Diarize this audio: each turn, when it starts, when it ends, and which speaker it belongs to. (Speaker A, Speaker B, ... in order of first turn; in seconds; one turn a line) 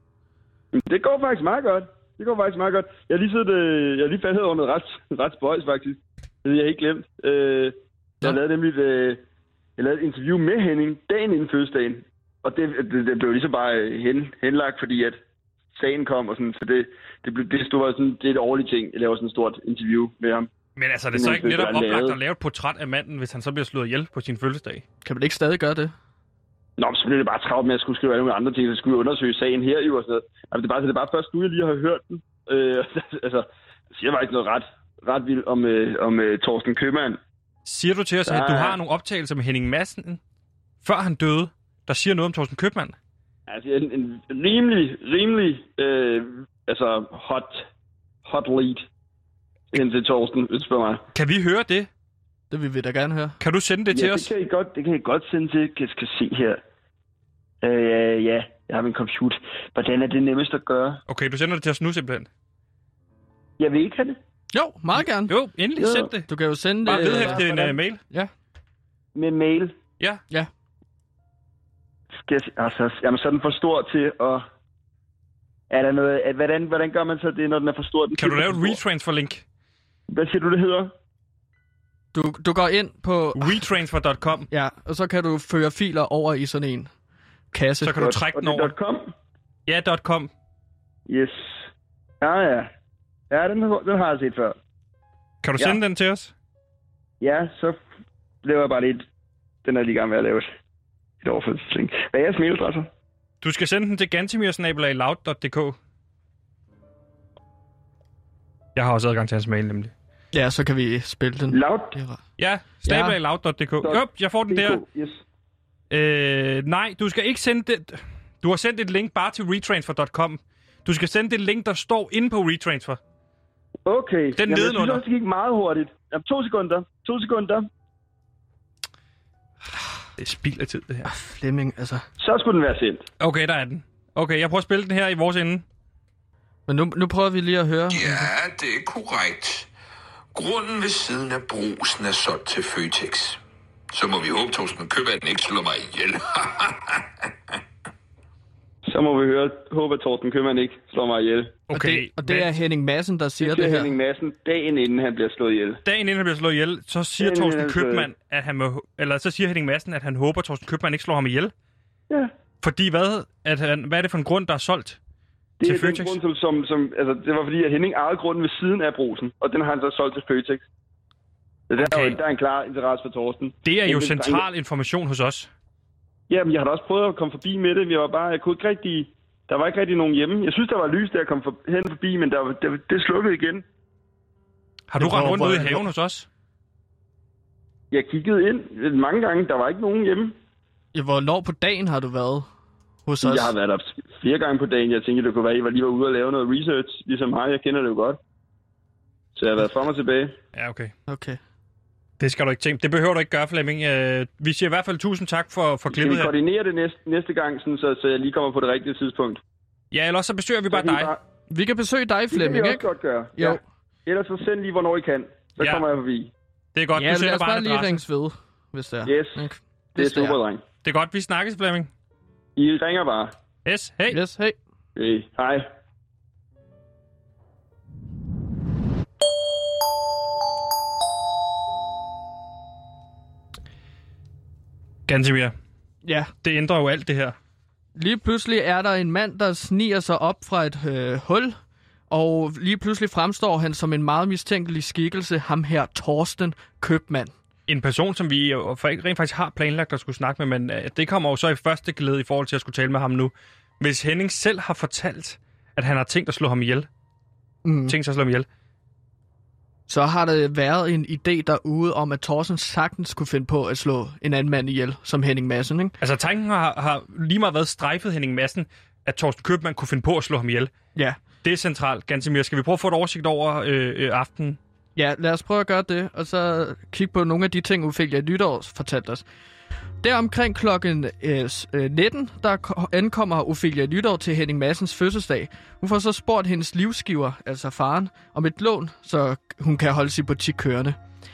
Speaker A: 0.7-9.2
Speaker A: 9.8-15.2
Speaker A: 15.7-20.5
Speaker B: 20.8-24.8
Speaker A: 21.1-22.2
Speaker C: 25.0-25.9
Speaker A: 26.8-37.2
Speaker B: 37.6-40.2
Speaker A: 38.3-38.8
Speaker B: 40.8-42.9
Speaker A: 43.5-47.6
Speaker A: 48.2-48.8
Speaker A: 49.7-51.0
Speaker B: 51.1-51.9
Speaker C: 52.5-53.4
Speaker B: 53.4-54.3
Speaker A: 53.9-56.6
Speaker A: 57.6-61.0
Speaker B: 61.1-62.3
Speaker A: 63.6-64.2
Speaker C: 64.5-65.3
Speaker B: 65.3-66.3
Speaker A: 65.8-66.1
Speaker C: 66.3-67.4
Speaker B: 66.8-68.0
Speaker A: 66.9-67.8
Speaker A: 69.1-69.7
Speaker A: 72.3-74.4
Speaker A: 75.7-78.8
Speaker B: 78.2-79.4
Speaker A: 80.1-80.9
Speaker C: 82.1-83.6
Speaker B: 83.3-84.5
Speaker C: 84.5-86.9
Speaker C: 87.5-88.0
Speaker B: 87.8-88.7
Speaker A: 88.0-89.1
Speaker B: 89.7-90.3
Speaker A: 91.1-91.6
Speaker A: 92.2-92.7
Speaker A: 93.3-94.5
Speaker B: 95.4-96.3
Speaker A: 97.2-97.8
Speaker A: 98.4-99.0
Speaker A: 99.6-100.5
Speaker A: 101.2-102.9
Speaker B: 103.4-105.8
Speaker B: 108.8-109.9
Speaker C: 110.3-112.2
Speaker A: 111.5-112.0
Speaker B: 112.4-114.8
Speaker C: 112.8-113.2
Speaker A: 113.8-115.2
Speaker B: 115.9-123.0
Speaker A: 123.8-127.7
Speaker B: 124.4-125.0
Speaker B: 130.2-131.1
Speaker C: 131.0-132.0
Speaker A: 132.2-133.1
Speaker B: 133.2-135.6
Speaker C: 136.7-138.3
Speaker D: 137.9-139.7
Speaker D: 140.3-143.4
Speaker D: 143.9-147.0
Speaker A: 148.8-151.6
Speaker B: 151.7-152.5
Speaker C: 151.7-153.9
Speaker A: 153.4-155.8
Speaker B: 155.8-161.5
Speaker A: 157.2-158.1
Speaker B: 162.6-165.0
Speaker A: 165.6-170.6
Speaker B: 165.6-166.2
Speaker A: 171.7-174.4
Speaker B: 171.8-172.2
Speaker B: 173.6-175.5
Speaker A: 176.3-183.6
Speaker B: 184.9-186.3
Speaker C: 185.0-185.8
Speaker A: 187.9-190.3
Speaker C: 190.9-192.5
Speaker C: 193.1-193.5
Speaker A: 193.2-198.2
Speaker A: 199.3-200.3
Speaker B: 200.5-200.9
Speaker C: 201.1-201.4
Speaker B: 202.2-206.3
Speaker A: 205.9-209.4
Speaker B: 209.9-211.1
Speaker A: 210.7-211.2
Speaker C: 211.5-212.8
Speaker A: 212.3-216.3
Speaker B: 216.7-218.0
Speaker C: 216.9-220.4
Speaker A: 219.1-219.4
Speaker A: 219.9-220.6
Speaker B: 220.8-221.9
Speaker A: 222.6-223.3
Speaker B: 223.6-224.2
Speaker C: 224.1-224.6
Speaker A: 224.9-225.7
Speaker B: 235.1-235.5
Speaker C: 236.0-236.3
Speaker B: 236.4-237.3
Speaker C: 237.9-241.6
Speaker C: 242.1-247.3
Speaker B: 247.7-256.9
Speaker C: 257.6-257.9
Speaker B: 257.9-258.5
Speaker C: 259.9-265.9
Speaker B: 266.0-270.7
Speaker B: 271.4-274.6
Speaker C: 274.9-279.2
Speaker C: 280.0-291.0